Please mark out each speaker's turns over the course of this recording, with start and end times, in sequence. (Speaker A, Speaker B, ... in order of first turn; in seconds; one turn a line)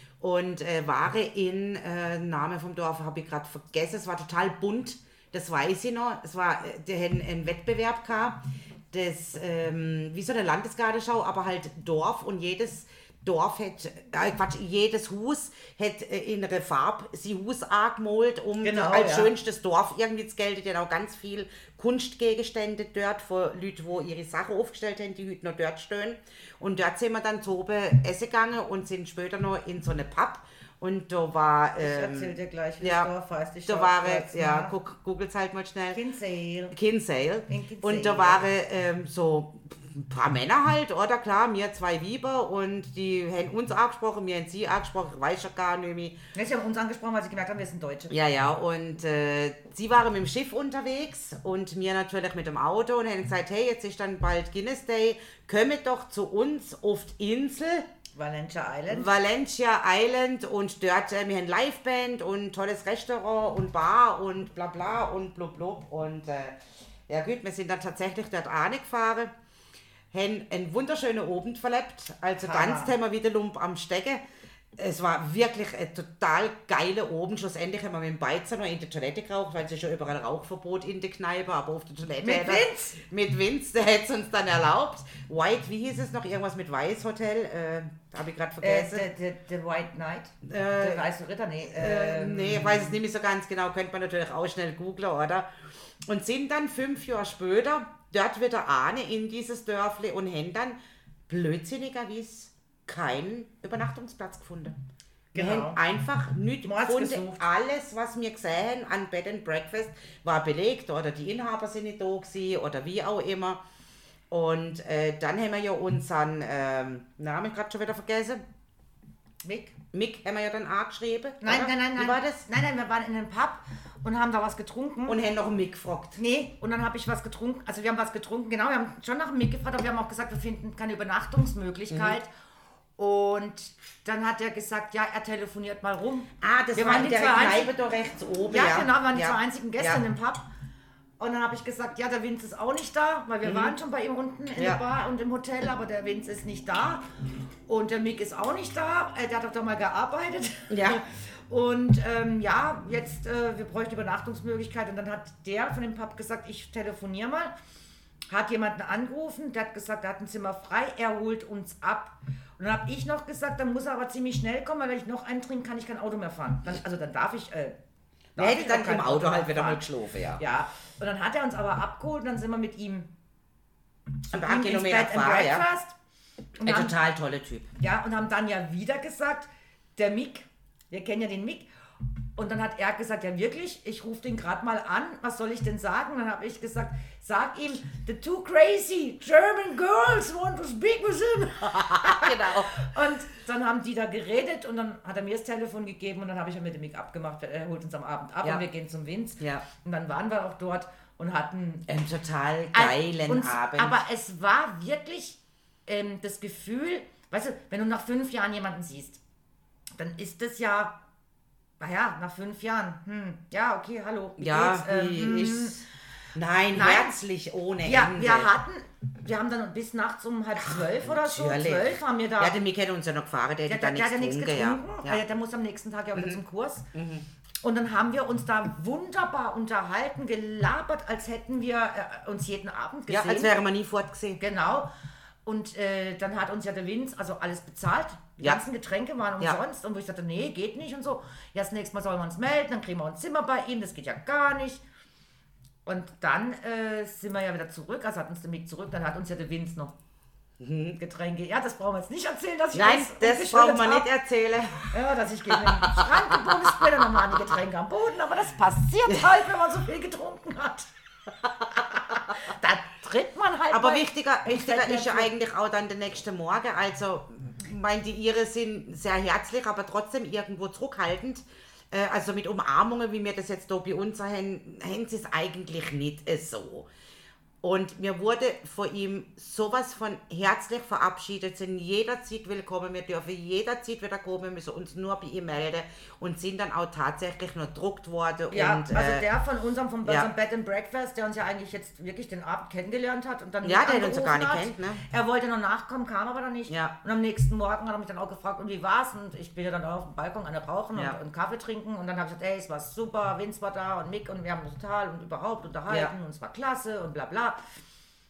Speaker A: 0.2-33.1
Speaker B: 18.6-19.3
Speaker B: 31.8-34.7
Speaker A: 33.7-36.0
Speaker B: 35.9-36.7
Speaker A: 36.7-46.2
Speaker B: 37.5-38.5
Speaker B: 46.3-48.1
Speaker A: 48.1-57.9
Speaker B: 58.1-59.1
Speaker A: 58.9-66.5
Speaker A: 67.1-69.3
Speaker A: 70.1-74.2
Speaker B: 72.4-72.9
Speaker A: 74.8-89.1
Speaker B: 82.2-83.0
Speaker B: 88.6-93.0
Speaker A: 90.4-91.1
Speaker A: 91.7-95.5
Speaker A: 96.0-100.8
Speaker A: 101.3-104.7
Speaker B: 105.3-105.8
Speaker A: 105.3-113.6
Speaker B: 106.6-107.4
Speaker A: 114.3-118.4
Speaker B: 119.4-119.8
Speaker A: 119.9-122.4
Speaker B: 121.4-125.2
Speaker A: 125.0-126.2
Speaker B: 126.2-132.3
Speaker A: 131.9-132.2
Speaker B: 133.0-137.7
Speaker A: 136.4-140.0
Speaker B: 138.5-140.4
Speaker B: 141.2-147.1
Speaker A: 143.4-143.7
Speaker A: 144.6-144.8
Speaker B: 147.7-157.5
Speaker A: 150.7-151.0
Speaker B: 158.3-167.8
Speaker B: 168.3-169.8
Speaker A: 168.4-170.4
Speaker B: 170.4-173.1
Speaker B: 174.2-175.9
Speaker A: 174.3-175.7
Speaker B: 176.6-176.9
Speaker A: 176.6-177.7
Speaker B: 177.8-181.7
Speaker B: 182.3-201.9
Speaker A: 191.7-192.8
Speaker A: 199.4-199.7
Speaker A: 201.9-204.0
Speaker B: 202.7-209.2
Speaker B: 209.9-211.0
Speaker B: 211.8-215.8
Speaker A: 214.4-215.8
Speaker A: 216.3-218.5
Speaker B: 216.7-217.1
Speaker B: 217.8-222.6
Speaker A: 220.6-225.2
Speaker B: 223.7-226.9
Speaker A: 226.9-227.2
Speaker B: 227.6-233.6
Speaker A: 233.1-234.4
Speaker B: 234.4-234.9
Speaker B: 235.4-244.8
Speaker B: 245.8-249.9
Speaker A: 250.6-251.0
Speaker B: 251.0-254.1
Speaker A: 252.7-256.5
Speaker B: 254.9-260.9
Speaker A: 257.1-257.4
Speaker B: 261.7-265.3
Speaker A: 263.7-276.9
Speaker A: 277.6-289.2
Speaker B: 288.5-307.6
Speaker A: 293.6-295.0
Speaker A: 296.7-296.9
Speaker A: 305.9-306.1